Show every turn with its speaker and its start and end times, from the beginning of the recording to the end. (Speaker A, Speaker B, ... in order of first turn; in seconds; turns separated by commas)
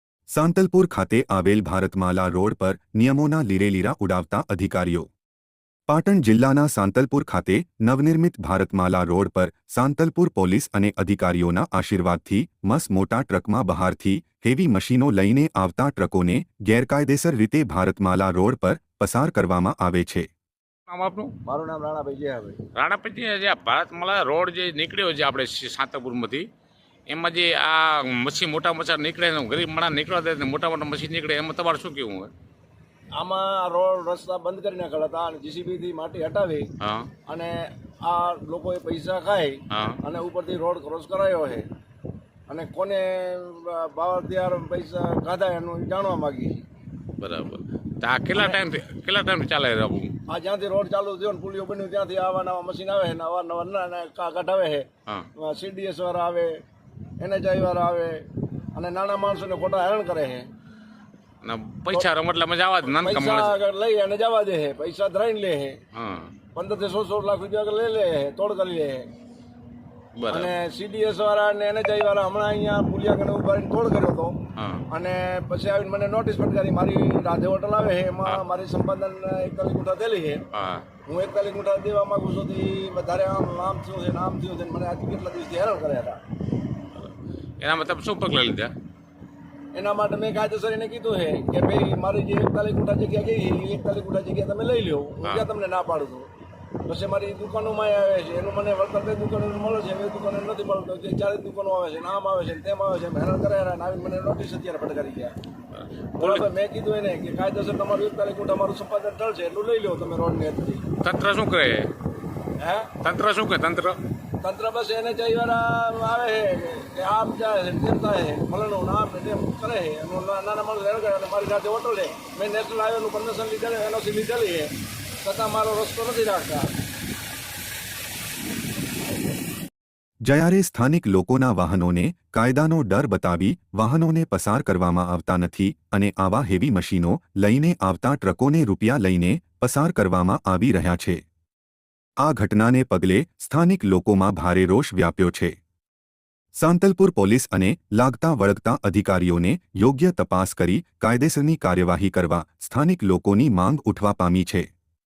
Speaker A: 0.3-5.1, Speaker A: 5.9-20.3, Speaker B: 20.9-21.3, Speaker C: 21.4-22.6, Speaker B: 22.7-26.4, Speaker B: 27.1-32.3, Speaker C: 33.2-36.7, Speaker B: 36.8-37.1, Speaker C: 37.3-41.6, Speaker B: 39.7-40.0, Speaker C: 42.5-46.6, Speaker B: 47.2-50.1, Speaker C: 50.3-56.6, Speaker C: 57.2-60.5, Speaker B: 61.4-63.6, Speaker C: 62.9-65.8, Speaker B: 65.9-66.3, Speaker C: 66.5-69.1, Speaker B: 70.2-70.5, Speaker C: 70.3-74.4, Speaker B: 74.5-74.8, Speaker C: 74.9-80.4, Speaker B: 80.5-80.8, Speaker C: 81.1-86.2, Speaker B: 86.9-88.7, Speaker C: 89.7-96.3, Speaker C: 96.8-105.3, Speaker B: 105.8-106.4, Speaker C: 106.2-110.9, Speaker B: 111.0-111.9, Speaker C: 112.6-112.9, Speaker B: 112.9-114.0, Speaker C: 114.4-126.7, Speaker A: 130.2-141.2, Speaker A: 142.2-145.5, Speaker A: 146.6-154.7